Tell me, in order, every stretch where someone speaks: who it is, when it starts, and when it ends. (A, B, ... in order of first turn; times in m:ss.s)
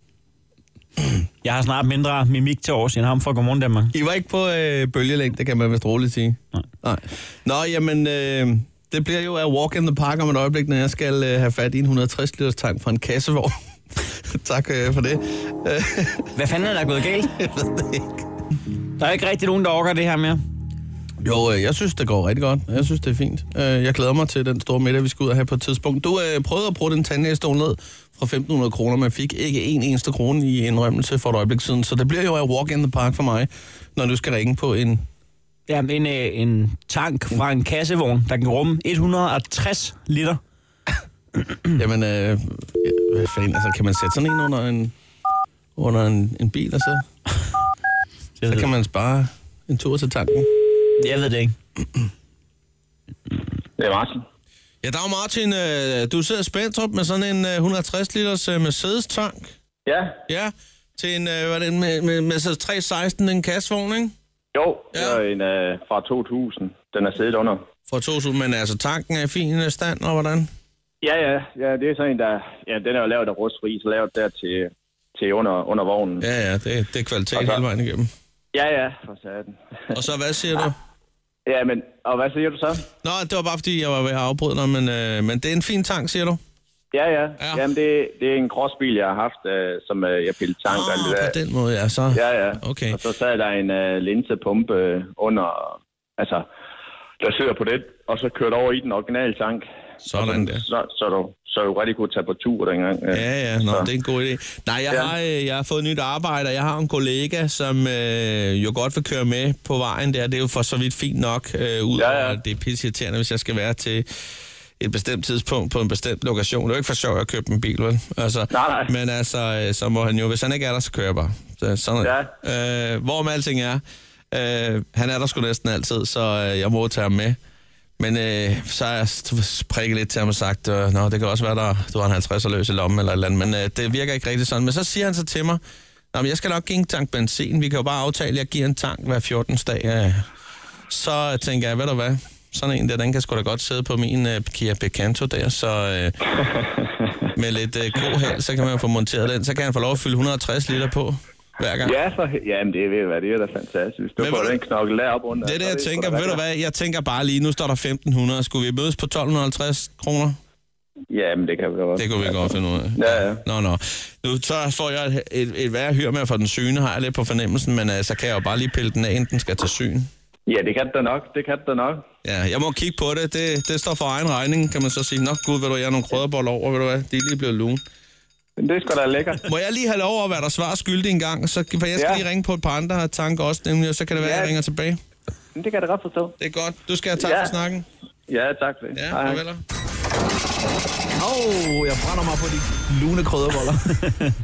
0:01.4-0:03.9 A
0:03.9-0:16.3 B
0:16.3-0:17.3 A
0:17.3-0:18.2 B
0:19.0-0:20.4 A
0:21.2-0:35.0 B
0:35.7-0:40.4 A
0:41.8-0:44.9 B
0:45.8-0:47.0 B
0:48.4-0:48.7 A
0:48.4-0:50.5 B
0:51.0-0:51.6 A
0:53.8-0:54.2 C
0:54.8-0:59.5 B
0:59.8-1:00.2 C
1:00.3-1:04.1 B
1:04.5-1:07.6 C
1:04.9-1:05.2 B
1:07.9-1:10.5 B
1:11.0-1:16.2 C
1:16.2-1:18.1 B
1:17.3-1:17.6 C
1:18.5-1:19.6 C
1:19.9-1:20.8 B
1:21.4-1:22.8 C
1:23.0-1:26.4 B
1:26.9-1:31.3 C
1:30.6-1:33.0 B
1:32.1-1:36.4 C
1:37.2-1:43.9 C
1:40.0-1:40.6 B
1:43.1-1:54.1 B
1:52.0-1:52.4 C
1:54.8-2:07.4 B
1:58.5-1:58.9 C
2:02.0-2:02.3 C
2:08.0-2:15.6 B
2:16.1-2:20.2 B
2:20.9-2:26.3 B
2:27.3-2:32.0 B
2:31.8-2:36.4 C
2:34.2-2:34.6 B
2:35.4-2:40.4 B
2:41.1-2:42.4 C
2:42.0-2:50.1 B
2:43.0-2:43.4 C
2:50.5-2:52.0 C
2:52.2-2:57.8 B
2:58.6-2:59.4 C
2:59.4-3:05.0 B
3:02.0-3:02.2 C
3:04.2-3:04.5 C
3:05.5-3:06.3 C
3:06.4-3:07.8 B
3:07.2-3:07.5 C
3:08.3-3:09.4 C
3:08.9-3:09.6 B
3:11.2-3:14.0 B